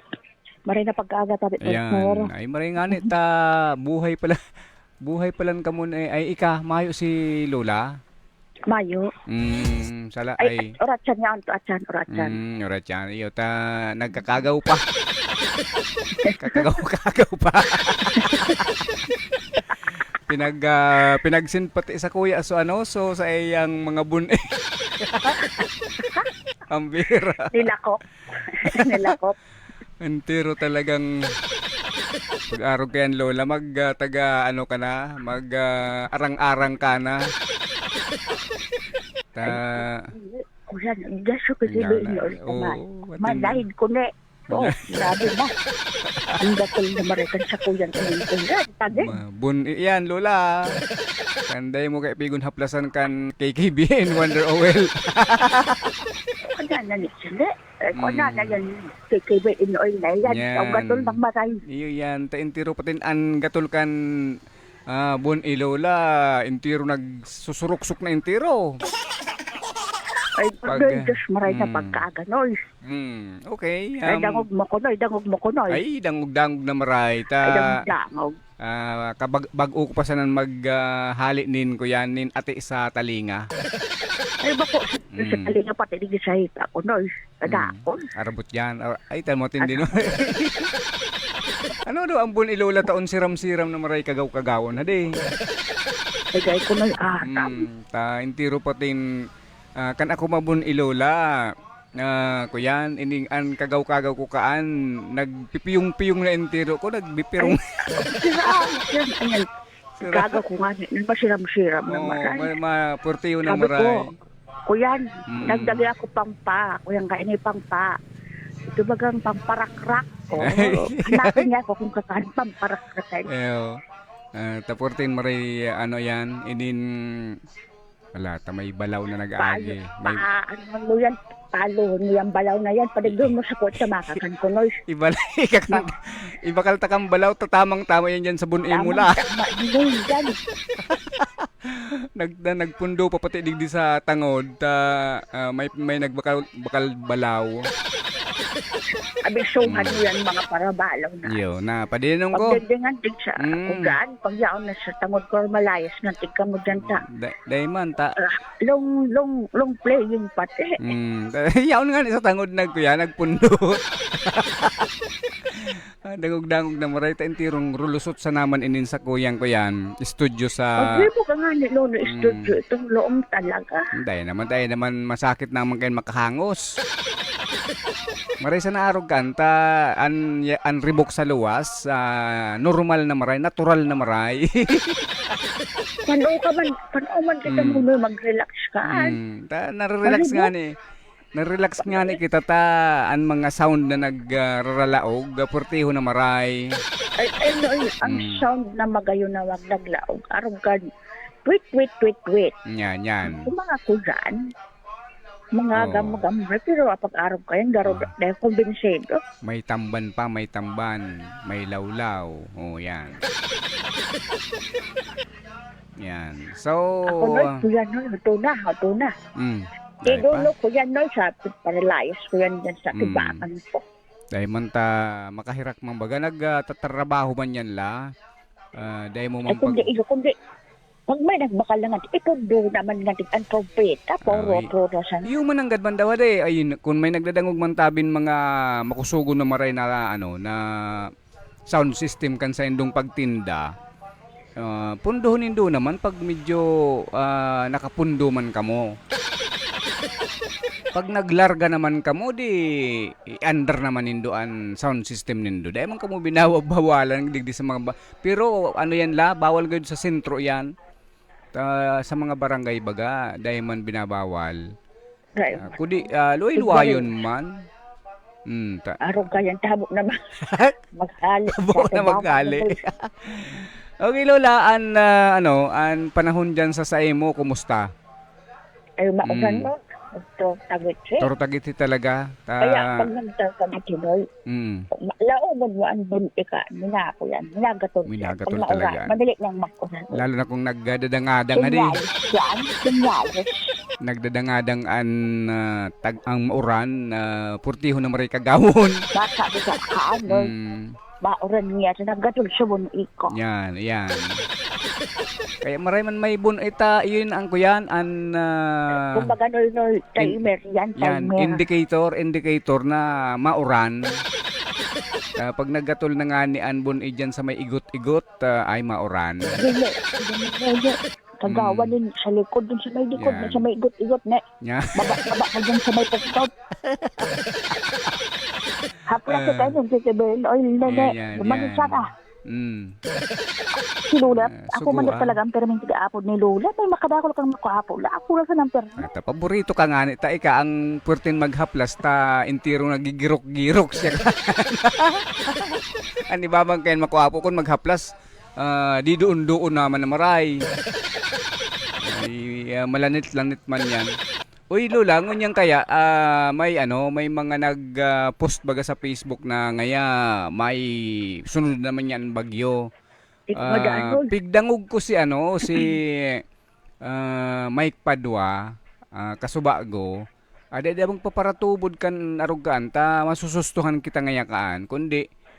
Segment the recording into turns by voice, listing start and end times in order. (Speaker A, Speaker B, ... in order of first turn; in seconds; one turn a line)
Speaker A: 0.7-2.3
Speaker B: 1.6-4.4
Speaker B: 5.0-7.8
Speaker A: 8.7-9.1
Speaker B: 9.3-10.7
Speaker A: 10.4-12.4
Speaker B: 12.1-14.8
Speaker A: 16.2-16.7
Speaker B: 16.4-18.7
Speaker A: 18.1-18.6
Speaker B: 20.3-25.4
Speaker B: 26.7-27.5
Speaker A: 27.5-29.3
Speaker B: 28.7-29.1
Speaker B: 30.0-31.1
Speaker B: 32.5-37.2
Speaker B: 39.3-40.1
Speaker A: 39.4-45.5
Speaker B: 41.7-43.6
Speaker B: 44.5-45.0
Speaker A: 46.4-49.1
Speaker B: 48.9-50.6
Speaker B: 51.5-56.0
Speaker A: 56.5-61.6
Speaker B: 58.0-58.6
Speaker B: 60.2-61.2
Speaker B: 61.7-63.9
Speaker B: 64.9-68.8
Speaker A: 70.3-72.6
Speaker B: 70.7-72.0
Speaker B: 72.8-74.4
Speaker A: 74.0-75.8
Speaker B: 75.7-77.7
Speaker A: 77.4-78.3
Speaker B: 78.6-83.4
Speaker A: 84.4-88.1
Speaker B: 85.1-85.5
Speaker B: 87.5-90.7
Speaker A: 89.6-89.8
Speaker B: 91.9-95.0
Speaker A: 96.3-97.6
Speaker B: 97.2-99.0
Speaker B: 99.8-101.3
Speaker B: 102.0-107.6
Speaker A: 107.4-109.4
Speaker B: 108.2-108.7
Speaker B: 110.0-110.4
Speaker A: 110.0-112.5
Speaker B: 111.9-114.0
Speaker A: 113.4-113.9
Speaker A: 114.7-117.9
Speaker B: 115.3-115.8
Speaker A: 118.7-123.3
Speaker B: 120.4-121.5
Speaker B: 123.3-123.8
Speaker B: 124.4-127.3
Speaker B: 128.2-130.2
Speaker A: 129.4-134.8
Speaker B: 133.0-133.9
Speaker B: 134.9-139.2
Speaker A: 138.7-140.3
Speaker B: 140.8-147.6
Speaker A: 149.2-151.4
Speaker B: 149.6-150.1
Speaker B: 151.3-152.5
Speaker A: 152.3-157.0
Speaker B: 153.4-154.0
Speaker B: 156.7-158.1
Speaker A: 158.2-160.9
Speaker B: 160.8-164.9
Speaker B: 165.5-171.0
Speaker A: 170.8-173.8
Speaker B: 172.0-172.5
Speaker B: 174.0-176.6
Speaker B: 178.4-185.1
Speaker A: 186.1-189.2
Speaker B: 187.4-187.8
Speaker B: 188.9-190.7
Speaker A: 190.0-190.5
Speaker B: 191.4-196.6
Speaker A: 191.8-192.2
Speaker A: 197.2-200.8
Speaker B: 198.0-198.4
Speaker A: 201.4-202.5
Speaker B: 202.7-203.5
Speaker A: 203.2-204.4
Speaker A: 205.6-209.2
Speaker B: 205.7-206.2
Speaker B: 207.8-208.1
Speaker B: 209.4-213.2
Speaker B: 216.0-217.5
Speaker A: 217.1-219.1
Speaker B: 219.4-220.5
Speaker A: 220.1-223.8
Speaker B: 222.9-223.4
Speaker B: 224.3-227.9
Speaker B: 228.8-229.9
Speaker A: 229.5-230.3
Speaker A: 231.1-235.3
Speaker B: 234.3-234.7
Speaker B: 235.3-240.6
Speaker B: 241.7-243.6
Speaker B: 244.6-248.8
Speaker B: 250.9-260.7
Speaker B: 261.5-264.6
Speaker A: 265.4-267.2
Speaker B: 265.6-267.5
Speaker B: 268.5-269.0
Speaker A: 269.0-270.2
Speaker B: 270.4-270.8
Speaker A: 270.9-272.8
Speaker B: 271.5-277.8
Speaker A: 279.0-281.3
Speaker B: 279.2-279.7
Speaker B: 281.2-283.1
Speaker A: 282.6-284.2
Speaker B: 284.5-284.8
Speaker A: 285.0-290.2
Speaker B: 288.1-289.1
Speaker B: 290.1-292.0
Speaker A: 291.5-293.7
Speaker B: 294.0-299.0
Speaker A: 299.1-300.5
Speaker B: 300.3-300.9
Speaker A: 301.2-303.3
Speaker B: 303.3-304.3
Speaker B: 305.6-308.9
Speaker A: 308.9-311.6
Speaker B: 311.0-314.0
Speaker B: 315.4-319.6
Speaker A: 319.6-324.4
Speaker B: 321.4-321.9
Speaker B: 323.2-323.6
Speaker B: 324.6-325.2
Speaker A: 324.9-326.5
Speaker B: 326.8-328.1
Speaker A: 329.1-332.1
Speaker B: 329.3-329.7
Speaker B: 330.9-332.9
Speaker A: 334.0-339.1
Speaker B: 334.3-335.4
Speaker B: 339.0-345.8
Speaker B: 346.3-348.1
Speaker B: 348.6-350.5
Speaker B: 352.0-354.1
Speaker B: 354.7-360.9
Speaker B: 361.5-362.8
Speaker A: 363.5-364.3
Speaker B: 363.6-366.4
Speaker B: 367.0-368.6
Speaker B: 369.1-370.1
Speaker B: 370.8-375.2